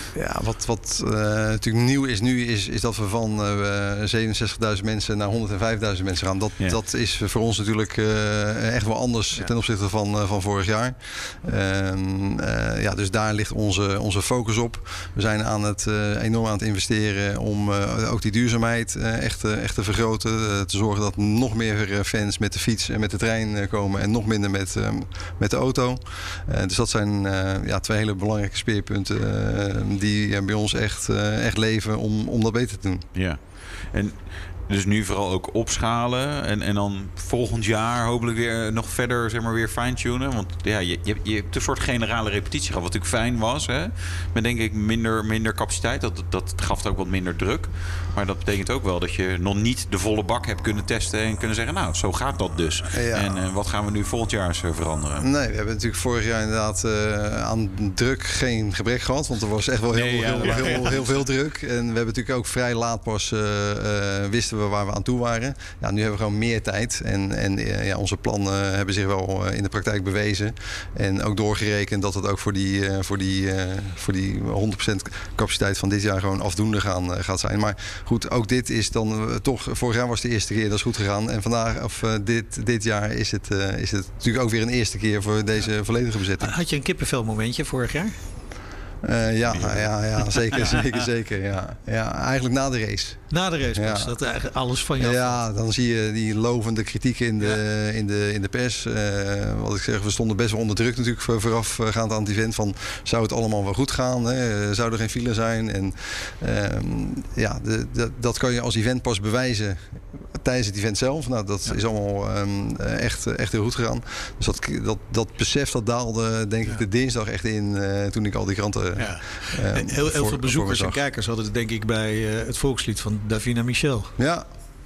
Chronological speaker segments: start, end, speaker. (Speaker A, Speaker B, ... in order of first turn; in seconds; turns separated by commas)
Speaker A: 0.1-33.1, Speaker B: 33.1-55.2, Speaker A: 52.9-53.4, Speaker A: 55.2-86.5, Speaker B: 59.9-61.1, Speaker C: 60.5-60.9, Speaker C: 86.4-88.2, Speaker A: 89.0-94.1, Speaker B: 89.5-90.8, Speaker C: 93.3-95.4, Speaker A: 95.0-121.0, Speaker C: 119.0-124.1, Speaker A: 124.2-124.5